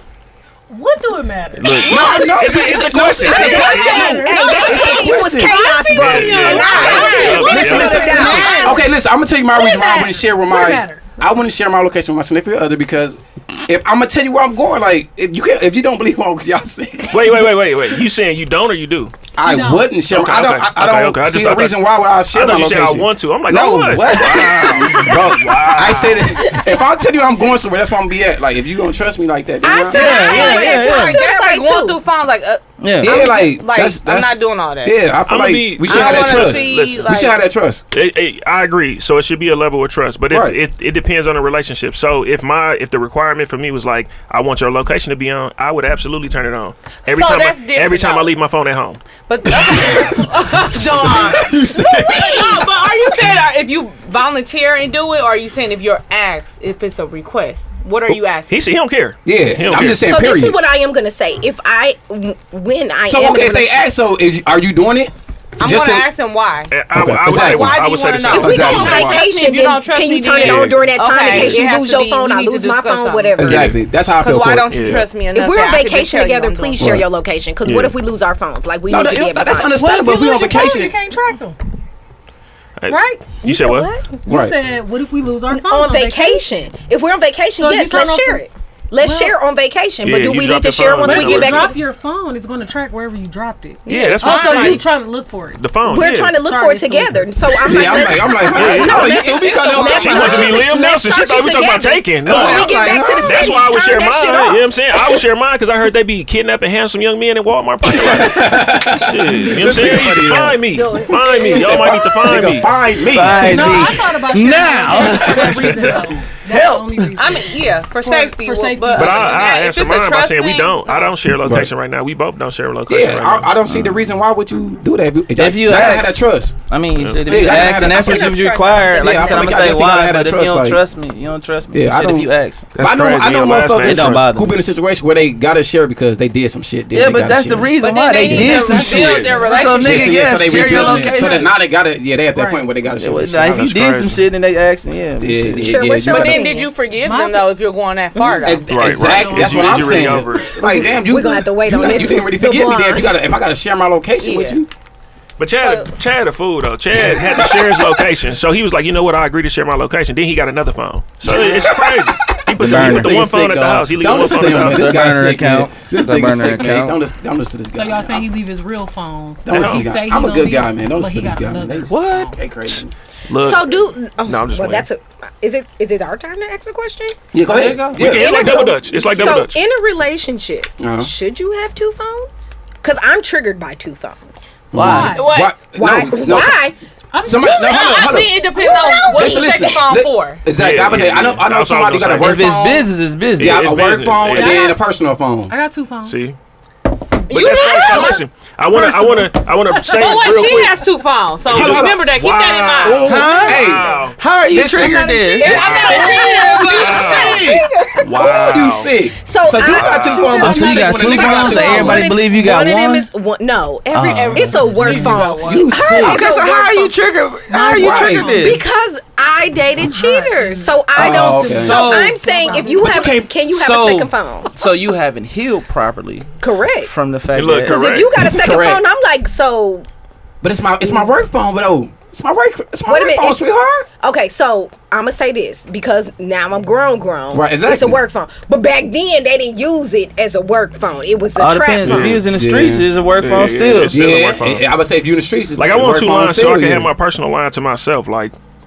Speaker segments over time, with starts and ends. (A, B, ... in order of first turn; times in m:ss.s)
0:00.7-0:02.1 A
0:01.6-0:04.2 B
0:01.8-0:02.4 C
0:01.8-0:05.6 D
0:03.3-0:08.9 C
0:03.3-0:08.9 A
0:06.0-0:08.4 B
0:06.9-0:17.3 D
0:09.5-0:11.1 A
0:17.1-0:19.1 B
0:19.4-0:30.3 D
0:19.4-0:19.9 A
0:20.1-0:21.8 B
0:22.3-0:26.4 B
0:29.6-0:32.0 C
0:29.9-0:31.2 E
0:30.0-0:35.0 F
0:32.8-0:33.2 E
0:33.0-0:37.8 D
0:35.3-0:37.2 B
0:35.9-0:37.4 F
0:37.9-0:49.0 B
0:40.3-0:40.6 D
0:47.1-0:48.3 F
0:49.3-0:51.6 F
0:49.5-0:52.7 D
0:51.8-0:52.7 C
0:52.1-0:58.6 F
0:58.1-1:00.0 B
0:59.2-1:00.6 D
1:00.0-1:03.8 C
1:03.1-1:06.1 D
1:05.6-1:06.8 F
1:06.7-1:09.1 B
1:06.9-1:09.2 D
1:07.3-1:13.4 F
1:08.3-1:13.7 C
1:10.4-1:11.6 B
1:13.4-1:15.0 D
1:13.4-1:13.8 B
1:14.2-1:16.9 F
1:14.7-1:15.1 B
1:15.3-1:19.8 C
1:16.8-1:17.0 D
1:17.6-1:17.9 B
1:18.9-1:20.9 D
1:19.7-1:21.6 A
1:22.8-1:23.9 B
1:22.9-1:23.4 A
1:23.4-1:24.0 C
1:24.2-1:26.4 A
1:24.3-1:24.6 D
1:25.5-1:31.7 C
1:27.6-1:28.4 A
1:29.0-1:29.4 A
1:30.0-1:31.8 B
1:31.0-1:35.6 A
1:33.9-1:34.9 B
1:33.9-1:34.8 F
1:33.9-1:34.8 C
1:35.6-1:36.4 B
1:35.8-1:44.7 C
1:36.3-1:38.0 A
1:37.6-1:40.6 D
1:38.5-1:39.2 B
1:39.0-1:40.6 F
1:39.8-1:52.7 B
1:42.2-1:43.6 D
1:47.8-1:50.6 D
1:50.7-1:51.9 F
1:51.5-1:53.9 D
1:53.1-1:57.2 E
1:53.3-1:59.4 A
1:57.2-2:01.2 F
1:59.0-2:03.5 B
2:01.4-2:01.7 D
2:02.9-2:06.6 D
2:03.7-2:04.0 E
2:05.4-2:12.7 E
2:07.0-2:07.5 B
2:07.2-2:10.8 D
2:07.4-2:09.7 C
2:11.7-2:17.7 D
2:12.8-2:14.3 B
2:13.8-2:14.6 E
2:16.9-2:21.5 E
2:17.8-2:20.3 F
2:18.2-2:19.8 A
2:19.8-2:23.7 D
2:20.5-2:21.4 A
2:22.3-2:22.7 A
2:23.0-2:25.8 E
2:23.4-2:24.2 B
2:25.2-2:26.5 D
2:25.6-2:26.7 C
2:26.1-2:28.7 F
2:27.0-2:27.5 A
2:28.2-2:28.6 C
2:28.4-2:34.7 D
2:28.7-2:30.5 B
2:28.9-2:30.2 A
2:30.6-2:33.1 C
2:34.2-2:34.6 F
2:35.4-2:45.0 B
2:35.6-2:35.9 F
2:37.2-2:37.8 D
2:41.3-2:48.3 D
2:42.6-2:43.2 E
2:44.4-2:47.0 E
2:47.7-2:52.3 A
2:49.4-2:52.9 D
2:49.5-2:49.9 B
2:51.9-2:54.9 B
2:53.3-2:57.2 C
2:57.3-2:59.4 D
2:57.5-2:58.0 E
2:58.0-2:59.6 B
2:58.0-3:04.5 C
3:00.8-3:01.1 D
3:04.7-3:06.6 D
3:04.8-3:05.2 E
3:04.8-3:05.3 A
3:05.2-3:05.6 F
3:05.7-3:06.8 C
3:07.1-3:07.9 A
3:07.2-3:08.4 D
3:07.4-3:10.4 F
3:08.6-3:09.8 C
3:09.1-3:15.5 D
3:10.5-3:12.4 B
3:12.2-3:13.7 E
3:13.4-3:14.7 B
3:14.4-3:14.8 A
3:15.5-3:16.2 A
3:16.0-3:16.4 B
3:17.3-3:18.2 F
3:17.3-3:20.8 B
3:17.5-3:18.2 A
3:18.7-3:20.3 A
3:20.0-3:23.0 F
3:21.5-3:22.1 D
3:21.5-3:24.2 B
3:22.8-3:24.0 D
3:23.0-3:26.8 E
3:24.5-3:32.2 D
3:24.6-3:28.7 C
3:25.4-3:27.0 F
3:25.8-3:26.8 A
3:26.7-3:27.5 B
3:28.0-3:28.9 B
3:29.2-3:36.9 C
3:30.2-3:33.1 E
3:31.3-3:31.8 A
3:33.9-3:35.2 E
3:34.7-3:35.8 F
3:35.4-3:36.3 D
3:36.0-3:38.6 E
3:37.5-3:38.6 A
3:37.8-3:38.3 D
3:38.3-3:44.5 C
3:39.8-3:40.8 A
3:41.0-3:41.9 D
3:41.0-3:42.3 E
3:41.5-3:43.0 A
3:42.8-3:43.3 D
3:43.5-3:46.3 E
3:46.4-3:46.9 C
3:46.8-3:47.8 E
3:47.3-3:48.1 B
3:47.7-3:49.8 C
3:48.1-3:48.8 D
3:50.4-3:53.9 D
3:52.9-3:53.4 C
3:54.0-4:02.1 C
3:57.3-3:58.0 D
4:01.4-4:04.0 E
4:01.8-4:02.2 B
4:01.9-4:02.9 D
4:03.2-4:04.6 B
4:03.9-4:06.9 D
4:05.6-4:08.3 B